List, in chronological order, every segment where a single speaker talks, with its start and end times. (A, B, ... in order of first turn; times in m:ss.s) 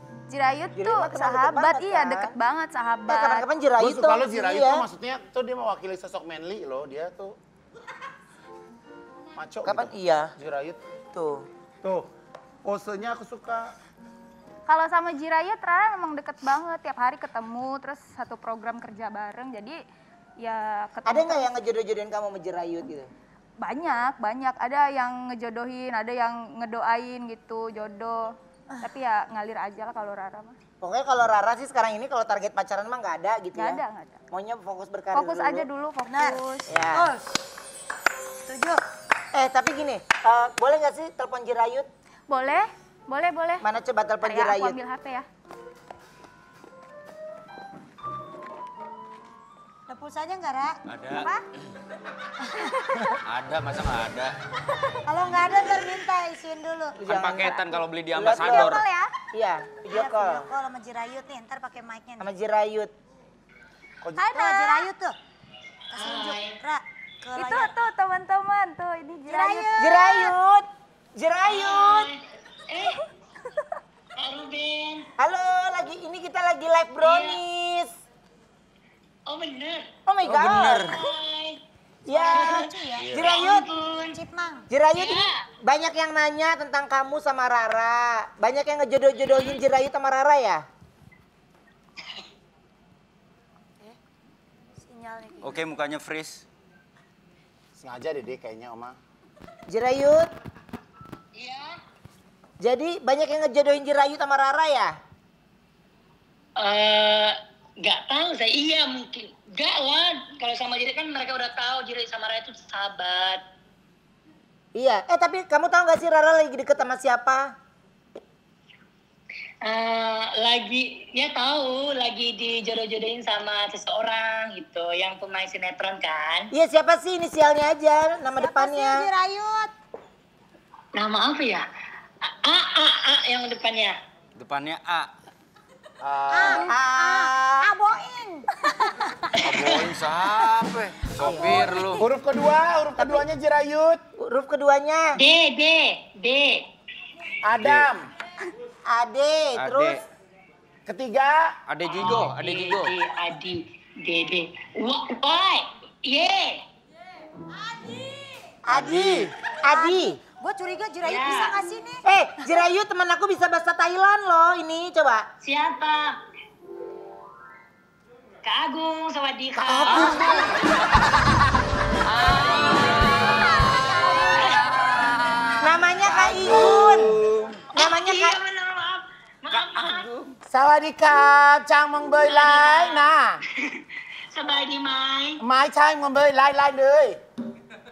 0:00.3-0:03.5 A
0:00.7-0:02.3 B
0:03.0-0:04.8 B
0:03.8-0:07.4 C
0:09.4-0:10.8 C
0:09.6-0:10.3 B
0:11.1-0:11.5 B
0:11.8-0:12.1 C
0:12.6-0:13.7 C
0:14.7-0:19.8 A
0:20.4-0:21.5 A
0:21.0-0:23.1 B
0:23.6-0:30.6 A
0:30.8-0:33.8 B
0:33.6-0:34.2 A
0:34.3-0:35.7 B
0:35.1-0:36.6 A
0:36.0-0:37.2 D
0:36.7-0:37.1 B
0:38.4-0:38.8 D
0:39.3-0:41.9 B
0:42.3-0:43.6 A
0:43.6-0:44.8 B
0:44.2-0:45.2 A
0:49.9-0:51.4 D
0:50.9-0:51.3 E
0:52.5-0:52.7 D
0:53.2-0:54.3 E
0:55.0-0:57.0 D
0:57.0-0:58.8 E
0:57.0-0:58.8 B
0:58.4-0:59.1 A
0:59.3-1:00.4 B
0:59.9-1:02.3 D
1:02.2-1:02.9 B
1:04.0-1:04.3 C
1:04.2-1:05.1 D
1:04.2-1:04.9 A
1:05.9-1:07.7 D
1:07.4-1:10.0 A
1:09.3-1:10.3 D
1:09.8-1:12.1 B
1:11.4-1:13.0 F
1:14.2-1:15.1 F
1:15.2-1:17.9 B
1:17.0-1:17.4 F
1:19.3-1:19.9 F
1:20.0-1:20.9 B
1:20.2-1:20.9 E
1:20.8-1:21.6 F
1:22.0-1:23.7 B
1:22.1-1:23.1 D
1:22.3-1:24.2 F
1:24.1-1:24.6 D
1:24.7-1:30.6 B
1:25.0-1:25.4 F
1:34.8-1:35.6 D
1:35.4-1:36.4 E
1:37.8-1:39.0 C
1:39.7-1:40.3 B
1:41.3-1:41.7 F
1:42.6-1:45.0 B
1:46.6-1:53.4 F
1:54.7-1:57.5 B
1:59.6-2:06.5 F
2:06.5-2:09.1 B
2:08.4-2:09.7 D
2:11.0-2:11.6 F
2:12.2-2:14.0 F
2:14.4-2:15.1 E
2:16.0-2:16.7 C
2:16.3-2:19.4 D
2:16.6-2:17.7 B
2:19.4-2:22.1 E
2:19.5-2:19.9 F
2:21.2-2:21.7 B
2:21.9-2:24.0 C
2:23.0-2:23.3 B
2:24.2-2:25.2 B
2:25.2-2:26.6 F
2:27.4-2:28.1 C
2:27.6-2:27.9 E
2:28.9-2:30.0 B
2:29.6-2:30.0 E
2:30.9-2:31.5 C
2:31.7-2:32.9 E
2:31.8-2:36.6 F
2:38.7-2:40.2 B
2:38.7-2:39.3 E
2:39.7-2:42.0 D
2:41.0-2:41.6 F
2:42.0-2:45.3 B
2:45.4-2:46.1 F
2:48.4-2:50.7 F
2:52.0-2:57.7 E
2:54.3-2:54.6 F
2:55.6-2:57.2 B
2:57.7-2:58.4 B
2:57.7-3:00.1 F
2:59.5-3:00.1 E
3:00.5-3:03.4 C
3:02.2-3:05.4 F
3:05.4-3:07.2 C